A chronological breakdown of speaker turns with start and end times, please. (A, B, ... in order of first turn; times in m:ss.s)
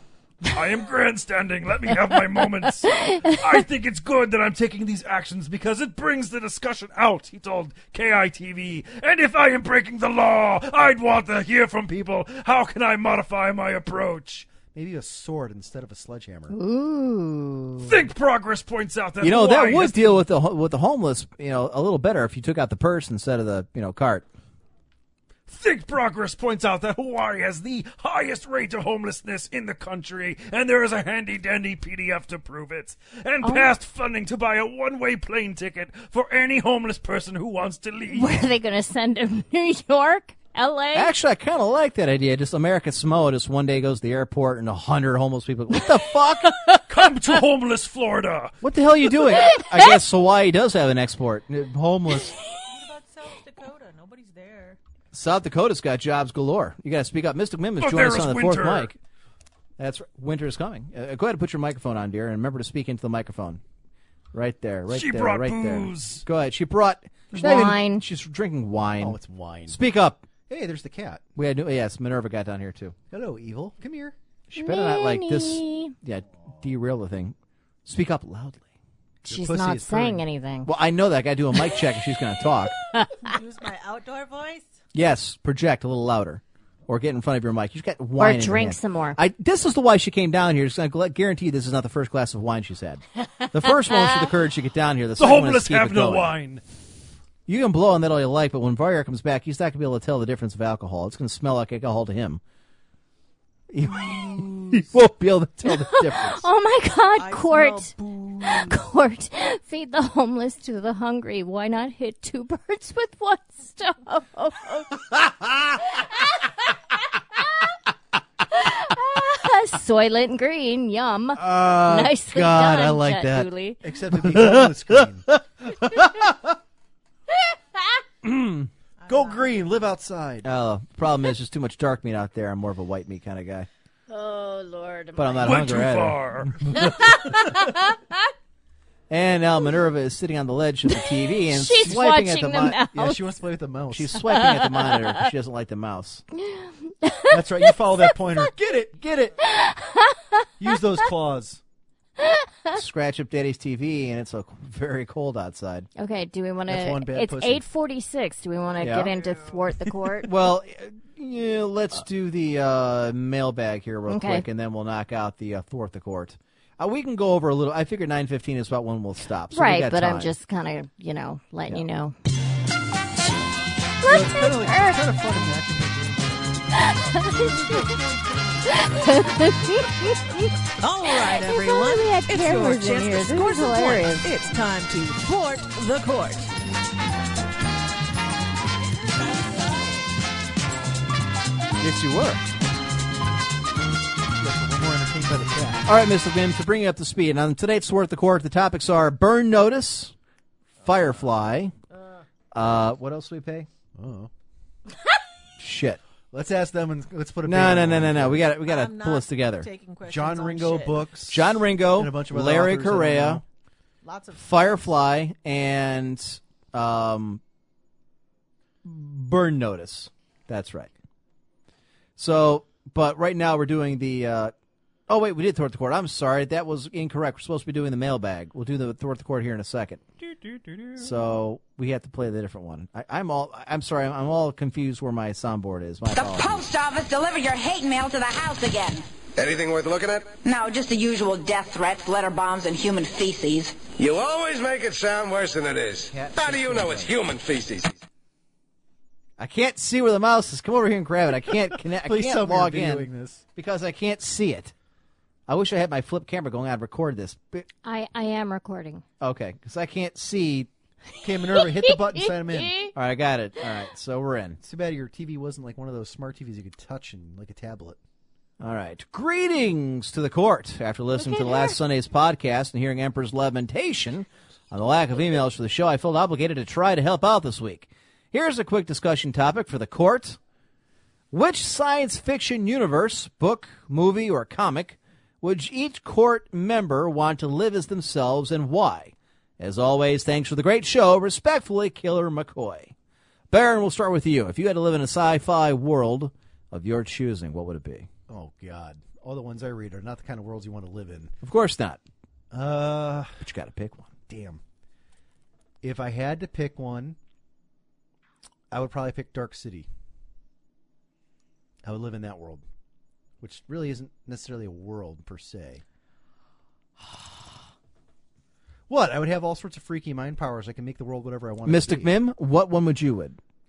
0:00.4-0:14.5 A
0:14.7-0:16.6 B
0:16.5-0:18.0 C
0:17.8-0:20.2 A
0:19.2-0:24.2 D
0:25.5-0:38.4 A
0:33.4-0:33.7 C
0:38.1-0:41.1 C
0:40.9-0:46.6 D
0:46.9-0:48.6 A
0:48.6-0:52.4 D
0:49.4-0:49.7 C
0:52.6-0:54.8 E
0:55.1-0:59.0 D
0:57.8-0:58.9 A
0:59.8-1:03.6 D
1:04.3-1:10.2 D
1:04.9-1:06.2 A
1:07.3-1:08.0 C
1:09.0-1:09.8 B
1:10.5-1:11.2 B
1:11.4-1:12.9 D
1:13.1-1:14.1 B
1:14.5-1:17.3 D
1:14.6-1:16.0 C
1:17.8-1:18.6 D
1:19.2-1:20.7 C
1:19.3-1:20.2 B
1:20.6-1:22.8 D
1:22.9-1:23.2 C
1:23.2-1:24.7 E
1:24.9-1:36.3 D
1:28.2-1:29.2 C
1:33.4-1:34.0 C
1:35.2-1:36.6 A
1:37.5-1:42.4 D
1:43.7-1:46.4 D
1:45.6-1:55.0 C
1:47.2-1:48.8 E
1:55.9-1:56.4 C
1:58.5-2:03.8 C
2:01.4-2:03.5 D
2:03.8-2:05.2 B
2:04.1-2:06.3 D
2:08.2-2:08.7 D
2:09.0-2:09.7 E
2:09.1-2:10.5 B
2:10.4-2:13.7 D
2:14.1-2:15.8 C
2:15.2-2:16.5 D
2:15.4-2:17.3 A
2:16.8-2:18.0 C
2:19.1-2:22.8 D
2:20.9-2:23.2 C
2:22.9-2:24.2 B
2:23.9-2:26.2 D
2:24.2-2:25.3 C
2:26.4-2:27.7 C
2:27.3-2:29.4 B
2:29.4-2:30.5 C
2:30.6-2:31.6 B
2:32.2-2:32.7 C
2:32.7-2:35.9 D
2:36.0-2:40.3 C
2:36.7-2:37.6 B
2:38.8-2:39.1 D
2:40.2-2:50.3 D
2:44.1-2:44.4 C
2:49.5-2:52.2 C
2:54.0-2:55.0 C
2:54.0-2:59.1 B
2:56.9-2:57.5 C
2:58.8-3:00.4 C
3:00.8-3:06.5 E
3:01.4-3:04.3 C
3:08.8-3:10.1 E
3:11.8-3:12.4 D
3:14.4-3:15.8 B
3:15.8-3:20.1 D
3:20.8-3:21.7 D
3:22.5-3:23.7 D
3:24.0-3:24.3 B
3:25.6-3:26.0 D
3:26.3-3:28.4 B
3:27.4-3:29.7 D
3:28.7-3:31.0 E
3:30.0-3:33.4 B
3:31.3-3:33.4 D
3:34.0-3:34.9 E
3:34.3-3:37.4 D
3:38.8-3:40.9 D
3:42.2-3:44.5 D
3:45.1-3:50.0 D
3:51.0-3:56.6 D
3:56.1-3:59.0 F
3:59.4-4:00.3 G
4:00.4-4:03.8 F
4:03.9-4:07.9 G
4:06.1-4:07.1 D
4:09.4-4:14.7 D
4:11.9-4:13.4 B
4:15.5-4:17.7 D
4:17.8-4:19.0 C
4:19.2-4:20.7 D
4:21.2-4:22.9 B
4:21.6-4:22.9 C
4:22.9-4:24.6 D
4:24.6-4:28.0 B
4:28.6-4:40.4 D
4:31.3-4:31.7 C
4:41.3-4:52.9 D
4:53.5-4:58.1 D
4:58.3-5:01.3 B
5:01.4-5:02.0 D
5:02.5-5:03.3 B
5:03.4-5:04.1 D
5:04.3-5:04.6 B
5:05.8-5:07.2 B
5:08.7-5:09.9 B
5:11.8-5:12.6 B
5:13.4-5:15.8 B
5:18.9-5:22.1 B
5:21.6-5:23.4 D